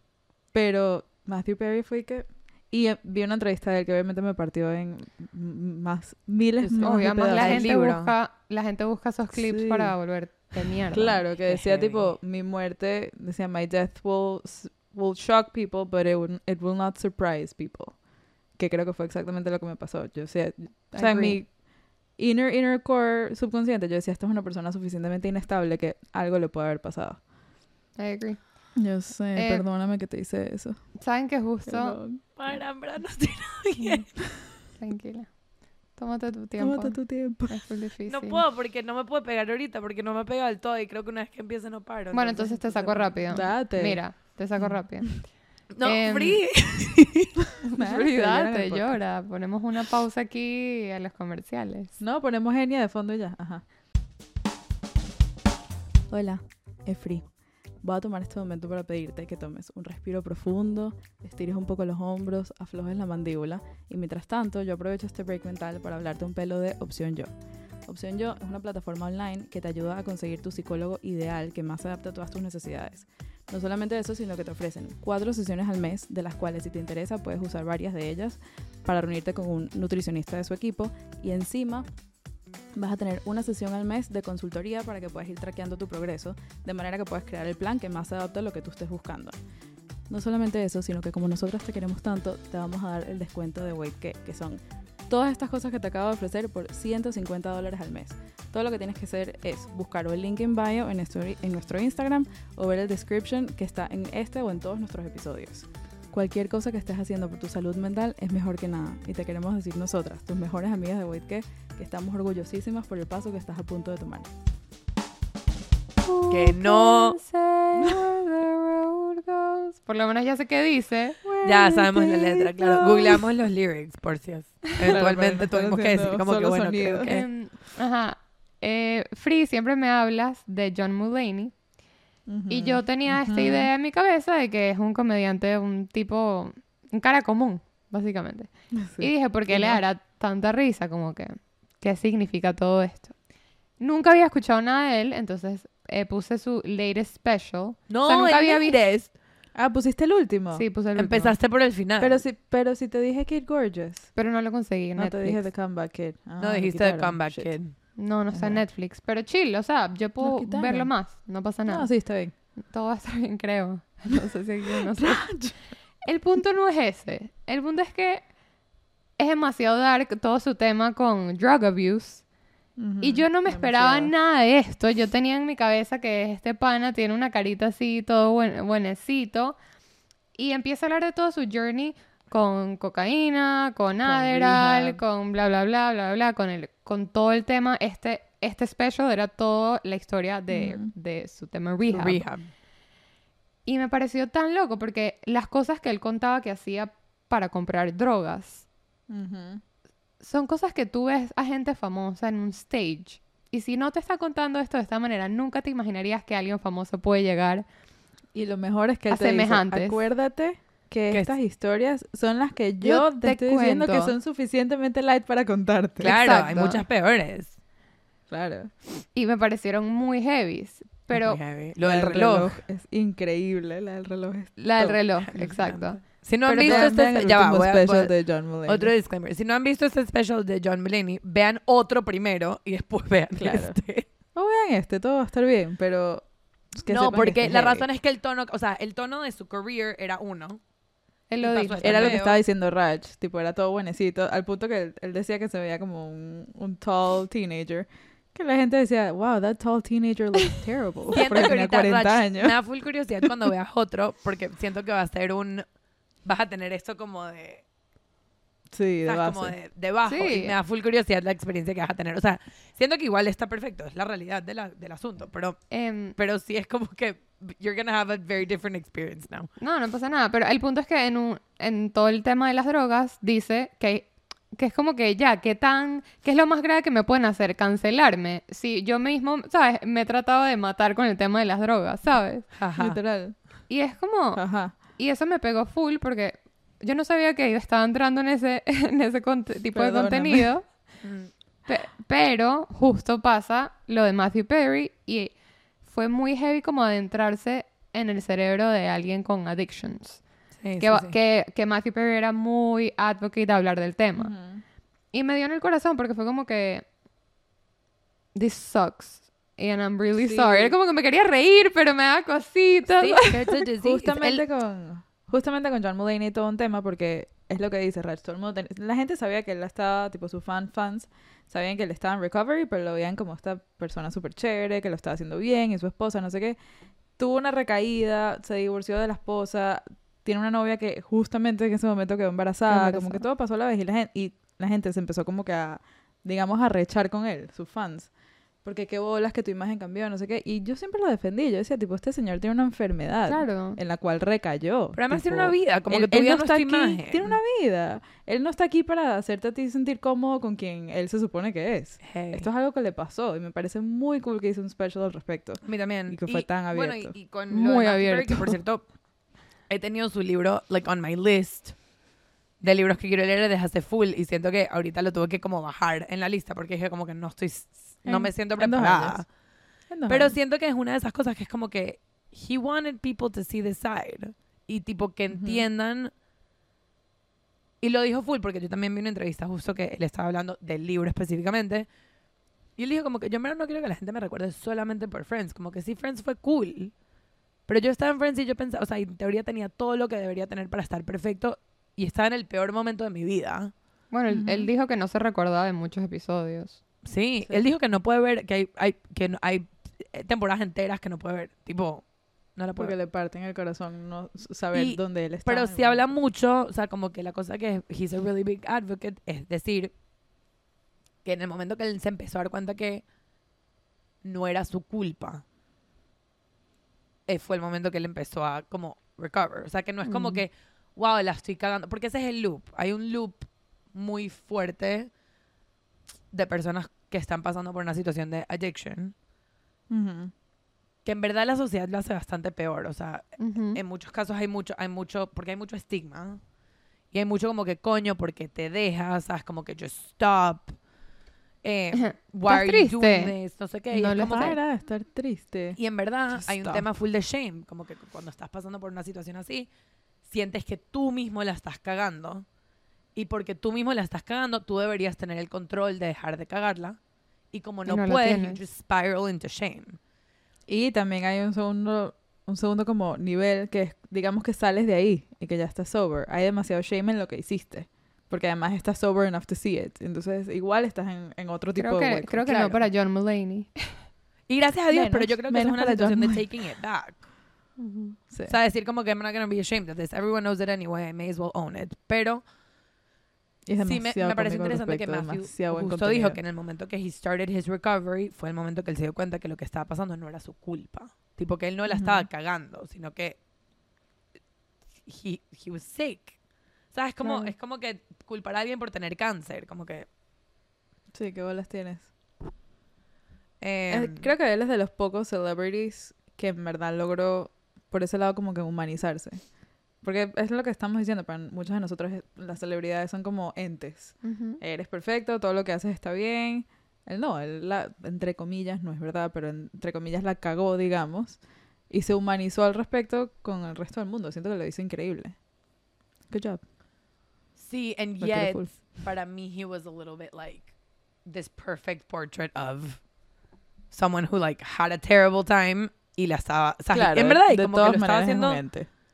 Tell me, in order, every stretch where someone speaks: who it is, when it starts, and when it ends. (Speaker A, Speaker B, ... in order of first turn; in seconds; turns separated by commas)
Speaker A: 0.5-7.7, Speaker B: 6.6-8.1, Speaker C: 6.8-11.2, Speaker A: 9.3-10.0, Speaker A: 10.9-27.2, Speaker B: 11.4-12.2, Speaker C: 20.9-21.4, Speaker C: 28.0-28.8, Speaker A: 28.8-31.0, Speaker C: 29.4-29.6, Speaker C: 31.0-32.0, Speaker A: 31.7-32.3, Speaker B: 32.4-34.1, Speaker C: 33.8-38.4, Speaker A: 36.6-37.6, Speaker B: 38.1-43.2, Speaker C: 42.1-46.6, Speaker A: 43.3-45.2, Speaker B: 45.7-47.3, Speaker A: 47.7-49.0, Speaker C: 47.8-52.0, Speaker A: 52.0-53.6, Speaker A: 56.1-67.3, Speaker A: 67.8-81.9, Speaker A: 82.7-89.4, Speaker A: 90.1-114.3, Speaker C: 116.0-121.2, Speaker B: 116.3-117.2, Speaker A: 121.2-123.2, Speaker B: 121.4-127.3, Speaker A: 124.8-127.2, Speaker C: 127.1-131.6, Speaker A: 132.3-133.7, Speaker C: 132.5-143.2, Speaker A: 138.8-139.8, Speaker C: 143.8-148.8, Speaker B: 147.9-149.1, Speaker A: 149.5-150.6, Speaker C: 150.6-151.4, Speaker B: 150.9-152.2, Speaker A: 152.0-154.2, Speaker C: 154.2-155.5, Speaker A: 154.9-157.6, Speaker B: 156.4-157.8, Speaker C: 158.0-168.3, Speaker A: 158.3-158.6, Speaker A: 160.2-160.9, Speaker A: 161.7-162.3, Speaker A: 164.9-165.6, Speaker C: 169.2-172.3, Speaker A: 172.8-174.1, Speaker C: 173.0-179.6, Speaker C: 180.3-192.3, Speaker A: 184.0-185.0, Speaker A: 190.5-190.9, Speaker B: 191.9-192.5, Speaker C: 193.7-198.7, Speaker A: 199.1-199.6, Speaker C: 200.2-207.7, Speaker A: 208.3-216.8, Speaker C: 209.1-210.1, Speaker C: 212.8-214.2, Speaker B: 216.0-217.6, Speaker C: 216.0-216.8, Speaker A: 218.3-218.7, Speaker C: 219.1-221.4, Speaker B: 221.2-222.6, Speaker A: 221.8-225.6, Speaker C: 224.6-227.0, Speaker B: 225.3-234.1, Speaker A: 226.5-228.9, Speaker A: 233.4-237.9, Speaker B: 236.9-240.6, Speaker C: 241.3-242.2, Speaker B: 241.4-242.4, Speaker A: 241.8-252.6, Speaker B: 251.1-255.7, Speaker B: 256.2-257.6, Speaker A: 258.7-259.6, Speaker B: 259.1-265.6, Speaker C: 260.1-260.6, Speaker C: 265.7-266.2, Speaker B: 266.2-269.5, Speaker C: 269.6-282.5, Speaker B: 282.6-283.0, Speaker A: 282.8-283.4, Speaker C: 283.7-291.0, Speaker A: 284.3-284.8, Speaker A: 289.7-290.5, Speaker B: 291.0-291.3, Speaker C: 291.7-304.3, Speaker B: 300.6-301.1, Speaker A: 304.2-304.6, Speaker C: 305.1-306.9, Speaker C: 308.4-313.6, Speaker A: 310.2-310.7, Speaker B: 313.0-314.4, Speaker A: 313.8-326.6, Speaker A: 327.2-357.1, Speaker C: 332.7-333.2, Speaker C: 343.3-343.8, Speaker B: 344.9-347.4, Speaker B: 352.0-352.5, Speaker B: 355.6-358.9, Speaker C: 357.5-358.6, Speaker B: 359.7-361.8, Speaker B: 362.6-369.3, Speaker A: 368.1-369.2, Speaker A: 369.9-370.4, Speaker B: 370.1-376.1, Speaker A: 375.3-375.7, Speaker B: 377.8-381.9, Speaker B: 382.8-386.9, Speaker B: 387.7-393.7, Speaker C: 394.1-396.8, Speaker A: 394.3-394.7, Speaker B: 397.0-403.0, Speaker A: 402.8-406.2, Speaker B: 404.7-409.9, Speaker B: 411.2-413.1, Speaker B: 414.2-415.4, Speaker B: 417.3-425.1, Speaker B: 426.3-429.1, Speaker A: 429.9-430.3, Speaker B: 431.1-436.4, Speaker C: 433.4-433.8, Speaker B: 437.1-440.8, Speaker B: 441.6-444.6, Speaker C: 442.0-443.3, Speaker C: 443.9-444.6, Speaker A: 444.3-446.9, Speaker B: 445.8-449.7, Speaker B: 450.2-452.5, Speaker B: 453.1-457.0, Speaker B: 457.5-460.0, Speaker C: 457.9-458.6, Speaker A: 460.7-472.9, Speaker C: 471.8-474.1, Speaker B: 474.5-477.2, Speaker A: 474.9-476.4, Speaker C: 477.8-478.2, Speaker A: 478.3-478.5, Speaker B: 478.5-482.4, Speaker A: 483.7-486.4, Speaker B: 483.8-493.4, Speaker A: 491.9-492.3, Speaker B: 495.1-496.4, Speaker B: 496.9-500.1, Speaker C: 497.2-497.5, Speaker A: 501.1-502.1, Speaker B: 503.6-504.3, Speaker A: 503.9-525.4, Speaker C: 514.2-514.6, Speaker A: 526.3-526.6, Speaker B: 527.6-530.7, Speaker A: 528.2-528.9, Speaker B: 531.2-533.0, Speaker B: 533.9-538.6, Speaker A: 536.9-538.9